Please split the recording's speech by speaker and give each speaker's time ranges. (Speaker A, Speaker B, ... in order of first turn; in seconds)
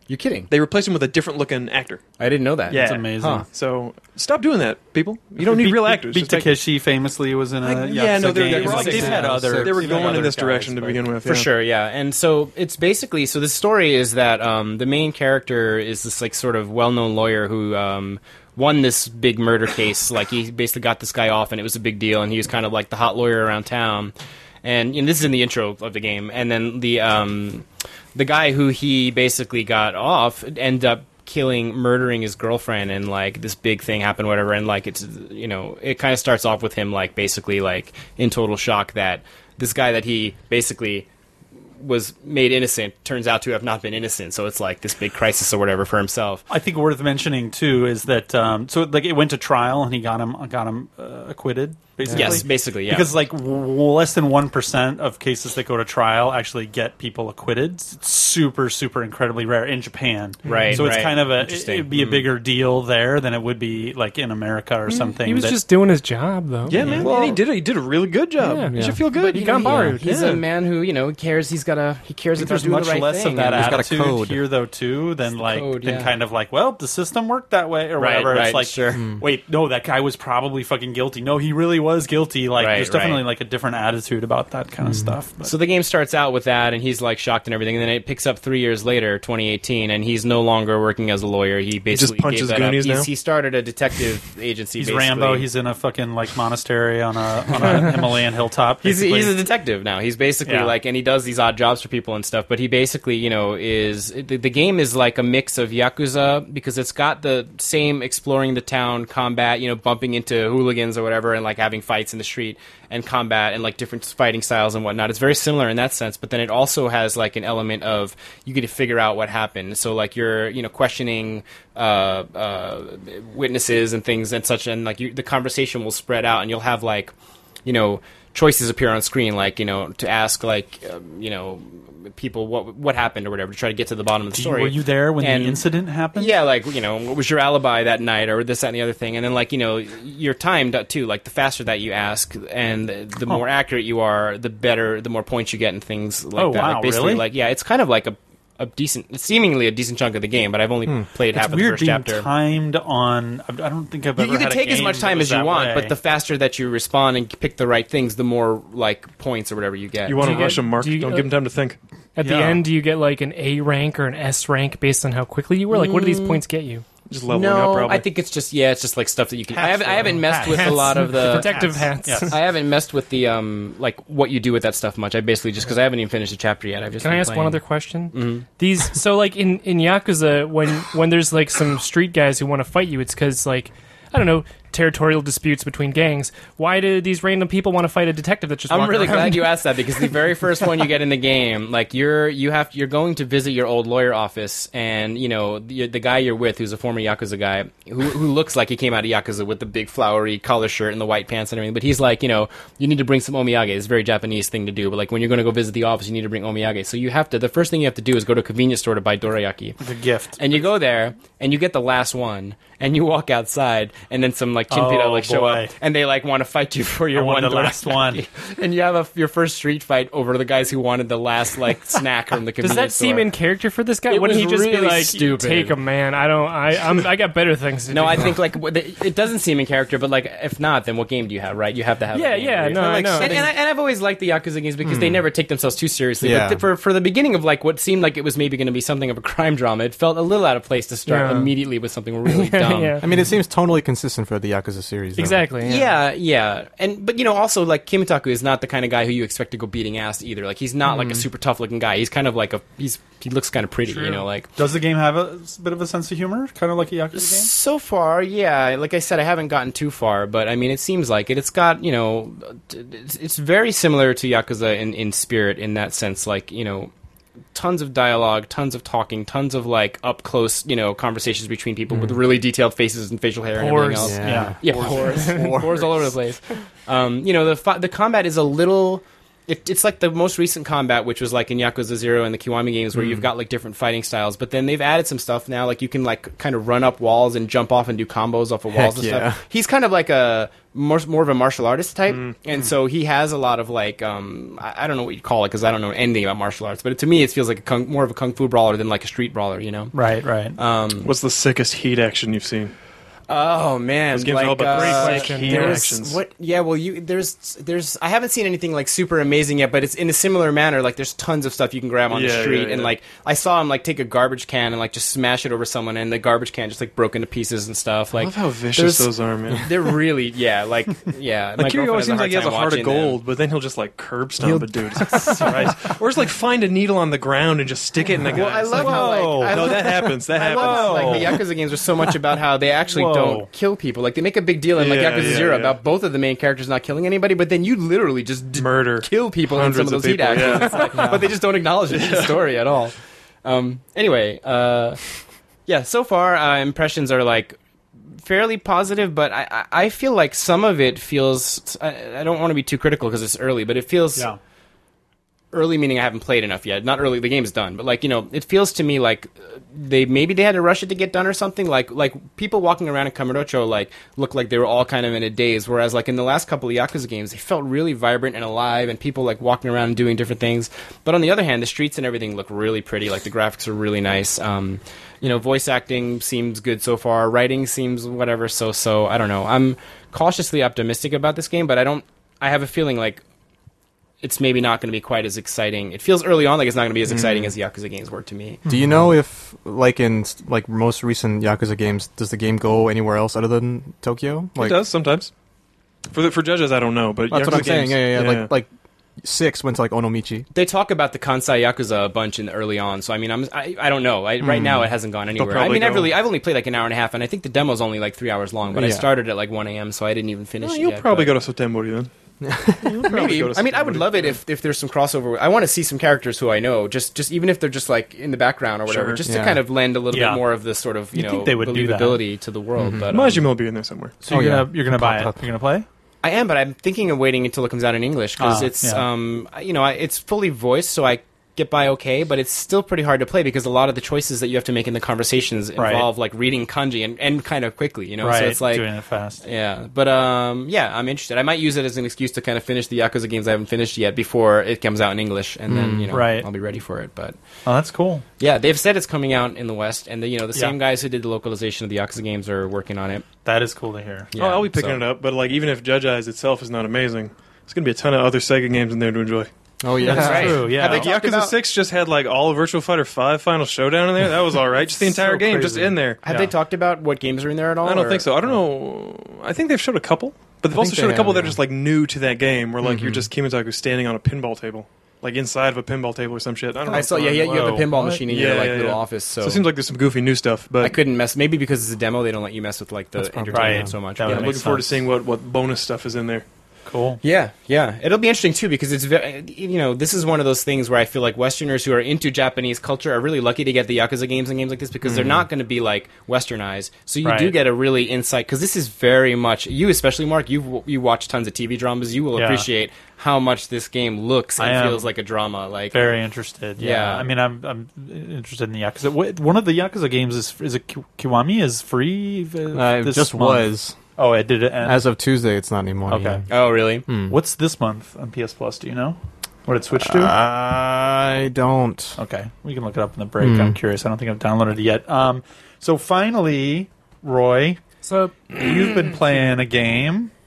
Speaker A: 0.1-0.5, 2.2-3.5, 8.4-9.3, 11.2-41.1, 41.8-46.4, 52.1-53.1, 60.4-62.3, 66.8-67.4, 69.1-73.9, 75.3-76.1, 78.0-79.0, 82.5-83.2, 85.4-95.5, 98.8-127.1, 127.6-135.6, 136.1-152.3, 154.2-160.5, 165.7-166.4, 167.3-171.7, 172.3-177.6, 178.1-178.4, 188.7-209.8, 210.4-223.3, 224.1-225.8, 227.9-243.0, 245.6-254.5, 257.1-266.9, 267.5-299.9, 300.6-301.1, 303.3-323.2, 328.3-345.0, 345.7-347.6, 348.2-354.3, 355.5-383.2, 384.2-388.6, 400.5-411.3, 413.0-423.4, 426.2-438.9, 439.4-447.4, 448.4-453.3, 454.3-455.0, 460.0-461.6, 466.2-468.3, 476.9-479.6, 480.8-484.5, 487.2-506.1, 506.8-507.3, 516.5-517.0
Speaker B: 0.5-2.0, 2.7-6.5, 7.6-11.5, 60.5-60.8, 66.7-70.4, 91.9-93.1, 160.1-161.8, 167.1-168.1, 292.1-292.3, 301.0-302.7, 304.1-306.2, 312.1-312.9, 318.1-320.0, 321.6-331.4, 334.7-335.8, 338.6-341.1, 341.9-342.4, 387.1-387.4, 394.6-395.3, 396.1-398.5, 405.3-406.1, 410.6-412.1, 412.8-414.4, 418.9-419.2, 423.1-424.2, 454.4-459.5, 460.0-466.2, 467.8-481.0, 484.2-486.4
Speaker C: 2.7-3.5, 5.4-11.1, 46.5-65.6, 72.4-85.5, 94.8-99.4, 100.4-100.7, 134.3-136.3, 146.4-147.2, 151.3-155.9, 162.2-162.6, 169.5-172.4, 209.8-210.4, 214.7-215.7, 217.1-218.2, 253.9-257.5, 274.2-275.4, 299.9-300.6, 325.1-325.7, 328.7-331.4, 332.9-333.5, 420.1-420.4, 421.1-422.2, 424.2-425.9, 428.4-429.0, 435.8-436.1, 438.2-439.4, 446.1-446.4, 447.6-448.2, 453.4-454.3, 460.0-461.1, 464.9-466.5, 477.5-478.1, 483.5-485.1, 486.9-487.2, 497.2-497.5, 502.4-502.6, 504.6-505.1, 505.9-515.0, 516.1-516.4, 517.3-520.3, 522.2-527.8, 528.5-530.3
Speaker D: 8.6-10.0, 66.8-67.1, 68.7-69.0, 73.5-74.4, 79.0-79.2, 84.8-85.1, 234.8-235.3, 236.2-236.6, 243.0-245.5, 250.9-251.2, 271.9-272.2, 274.0-275.9, 282.9-283.2, 288.7-289.4, 324.4-324.7, 388.7-394.8, 397.3-398.7, 399.2-400.4, 404.4-404.9, 408.7-409.1, 412.4-413.1, 419.3-419.6, 422.8-423.1, 424.3-425.4, 445.7-446.2, 459.8-460.8, 470.7-471.6, 472.8-473.3, 483.2-483.9, 512.7-514.0, 514.8-516.5, 517.0-517.4, 520.0-522.2, 523.4-523.8
Speaker E: 60.5-60.8, 64.9-67.4, 68.4-70.1, 160.2-161.3, 162.2-166.8, 170.5-172.4, 177.0-189.6, 222.6-228.4, 232.1-233.4, 241.1-241.5, 242.3-243.0, 245.2-245.9, 273.6-274.1, 275.2-275.5, 304.7-305.9, 528.0-529.5